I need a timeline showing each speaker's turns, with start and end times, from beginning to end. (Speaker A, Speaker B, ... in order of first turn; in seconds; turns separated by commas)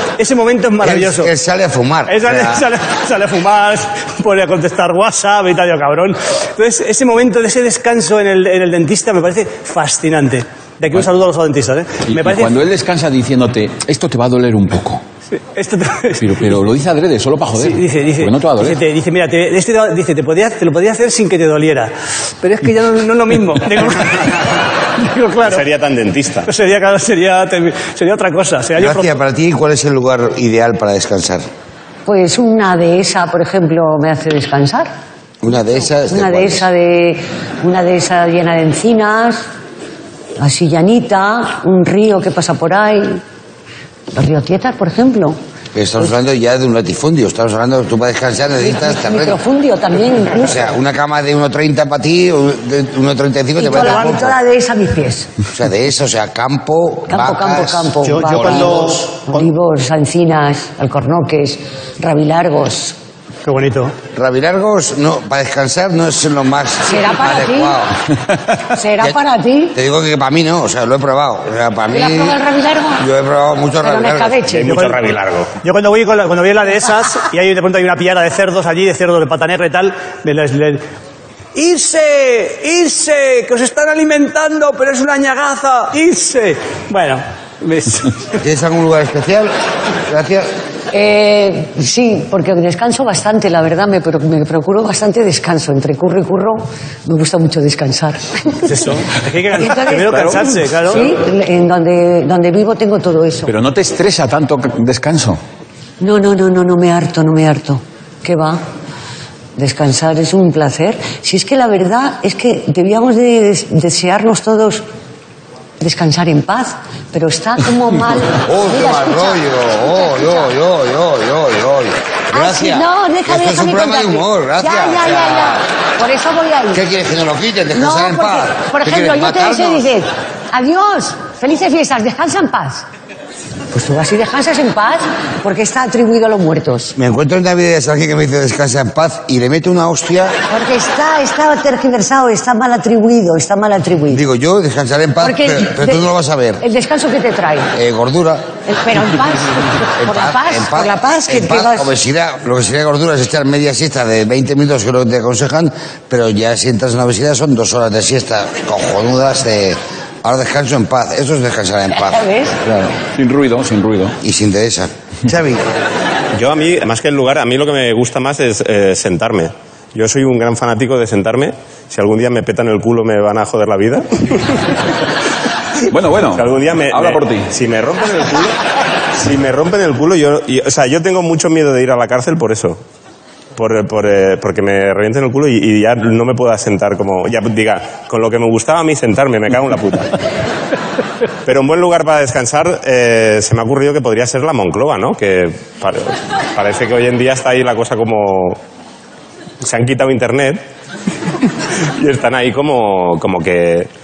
Speaker A: 0.2-1.3, Speaker B: 0.8-2.7, Speaker A: 2.1-12.6, Speaker C: 12.1-15.0, Speaker A: 15.4-16.2, Speaker C: 16.2-18.8, Speaker A: 17.6-25.6, Speaker D: 25.4-26.5, Speaker A: 26.5-29.1, Speaker B: 28.8-31.4, Speaker E: 32.1-34.9, Speaker B: 35.4-36.7, Speaker E: 36.1-39.5, Speaker E: 40.4-43.2, Speaker E: 44.1-45.4, Speaker B: 45.7-49.4, Speaker E: 48.6-50.6, Speaker B: 50.4-54.4, Speaker E: 53.6-55.3, Speaker A: 53.8-54.1, Speaker B: 55.5-58.8, Speaker E: 57.1-63.0, Speaker A: 58.0-59.5, Speaker A: 63.5-63.9, Speaker B: 64.2-68.0, Speaker E: 66.8-67.8, Speaker E: 68.7-69.8, Speaker B: 69.7-72.4, Speaker E: 71.9-73.1, Speaker B: 73.0-74.5, Speaker E: 73.8-74.7, Speaker D: 74.5-75.5, Speaker A: 74.7-75.0, Speaker A: 75.6-80.8, Speaker A: 81.5-88.2, Speaker B: 88.4-89.5, Speaker B: 90.1-90.5, Speaker E: 90.9-98.7, Speaker A: 98.7-101.1, Speaker E: 99.6-103.5, Speaker C: 103.5-105.4, Speaker E: 106.0-108.6, Speaker E: 109.6-114.8, Speaker E: 115.8-120.5, Speaker B: 118.4-125.6, Speaker E: 122.3-126.8, Speaker B: 126.7-129.9, Speaker E: 127.7-132.9, Speaker E: 133.7-136.9, Speaker B: 137.0-140.4, Speaker E: 140.5-144.2, Speaker B: 144.1-146.6, Speaker E: 145.2-146.0, Speaker E: 146.6-147.7, Speaker B: 147.8-148.4, Speaker E: 148.7-151.9, Speaker B: 150.0-163.0, Speaker E: 162.0-162.6, Speaker C: 163.1-164.2, Speaker B: 164.2-165.6, Speaker D: 166.3-174.8, Speaker C: 175.9-177.5, Speaker D: 176.3-178.6, Speaker D: 179.2-182.8, Speaker D: 183.6-190.2, Speaker D: 191.4-198.6, Speaker D: 199.6-200.6, Speaker D: 202.0-203.9